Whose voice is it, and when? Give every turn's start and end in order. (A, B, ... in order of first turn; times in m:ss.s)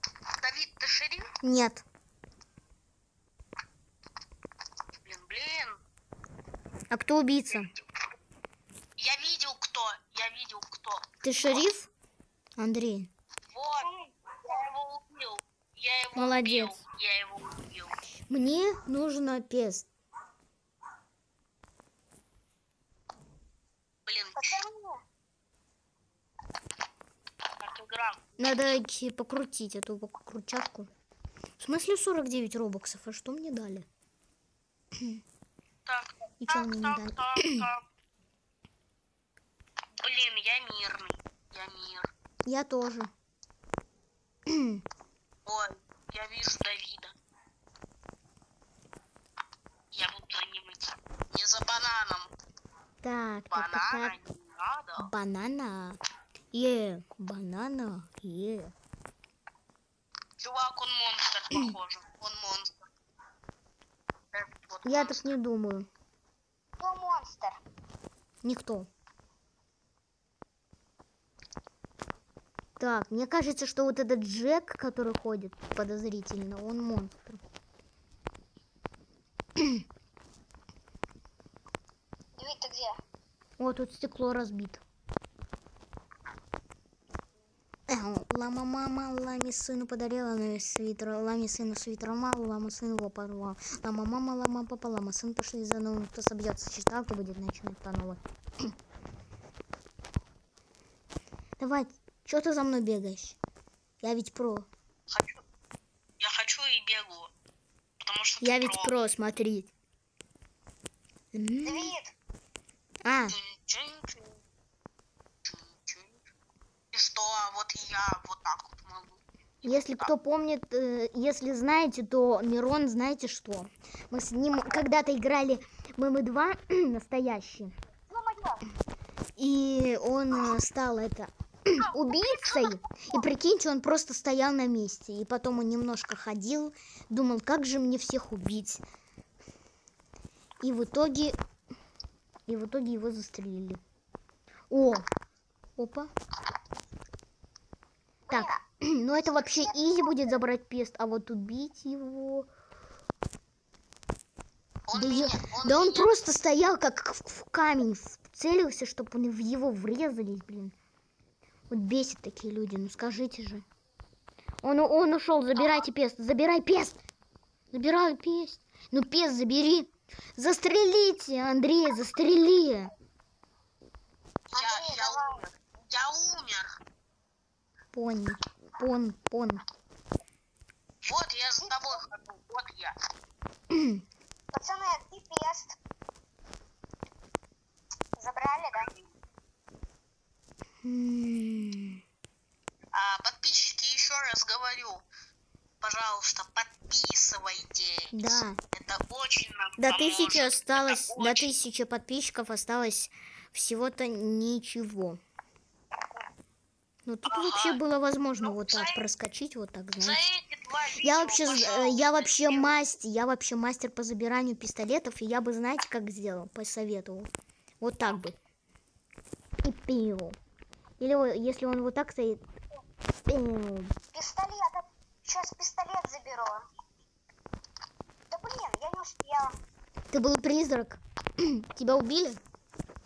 0:00.4-0:01.3 A
0:01.4-0:01.8 B
0:05.0-0:05.8 A
0:06.9-0:07.7 B
0:09.0-0:11.1 A
0:11.2-0:11.9 B
0:12.6-0:13.1 B
0:13.5-0:13.9 A
0:13.8-0:14.7 C
0:14.4-0:18.0 A
0:16.2-0:16.8 B
0:18.3-0:19.9 B
0:24.1-0:24.6 A
0:24.4-0:25.0 C
0:27.6-0:28.3 A
0:28.4-0:30.9 B
0:31.6-0:33.9 B
0:35.8-0:37.8 A
0:36.4-0:37.7 B
0:40.0-0:42.1 A
0:42.5-0:43.1 B
0:44.5-0:44.8 B
0:45.5-0:47.1 A
0:49.9-0:52.3 A
0:53.0-0:54.2 B
0:53.5-0:55.1 A
0:55.0-0:56.0 B
0:56.5-0:58.7 B
1:00.4-1:02.9 A
1:04.3-1:05.3 A
1:04.8-1:05.9 B
1:06.8-1:07.6 C
1:08.4-1:08.9 B
1:12.8-1:17.4 B
1:19.6-1:19.8 B
1:22.4-1:23.0 C
1:23.6-1:24.8 B
1:27.9-1:38.7 B
1:41.6-1:43.4 B
1:44.0-1:44.7 B
1:45.1-1:45.4 A
1:46.2-1:47.3 A
1:48.0-1:48.9 A
1:48.4-1:49.7 B
1:51.3-1:51.9 B
1:51.6-1:52.1 C
1:53.0-1:53.4 B
1:53.3-1:54.4 A
1:55.4-1:56.2 A
1:56.9-2:00.1 A
1:59.6-2:07.7 B
2:08.1-2:08.6 C
2:09.4-2:18.8 B
2:11.7-2:12.7 A
2:20.6-2:21.4 B
2:22.5-2:23.8 B
2:24.7-2:25.1 B
2:25.8-2:26.1 B
2:28.3-2:28.6 C
2:28.3-2:32.5 B
2:29.4-2:30.3 C
2:34.9-2:36.1 A
2:34.9-2:40.8 B
2:41.7-2:43.7 B
2:44.6-2:47.0 B
2:45.6-2:45.9 A
2:47.7-2:52.9 B
2:54.5-2:56.8 A
2:54.5-2:55.4 C
2:57.9-2:59.6 B
3:01.0-3:03.0 A
3:01.6-3:02.0 C
3:03.7-3:04.0 B
3:04.5-3:05.8 C
3:08.2-3:09.0 C
3:10.8-3:12.0 B
3:12.9-3:15.1 A
3:15.8-3:21.6 A
3:18.1-3:18.6 B
3:19.8-3:25.2 B
3:27.1-3:30.2 B
3:27.2-3:27.8 A
3:28.4-3:29.1 A
3:30.0-3:32.8 A
3:31.0-3:37.3 B
3:37.8-3:38.4 B
3:39.6-3:40.4 B
3:41.0-3:42.4 B
3:43.3-3:44.0 B
3:44.1-3:46.7 C
3:48.3-3:49.6 C
3:50.1-3:52.4 B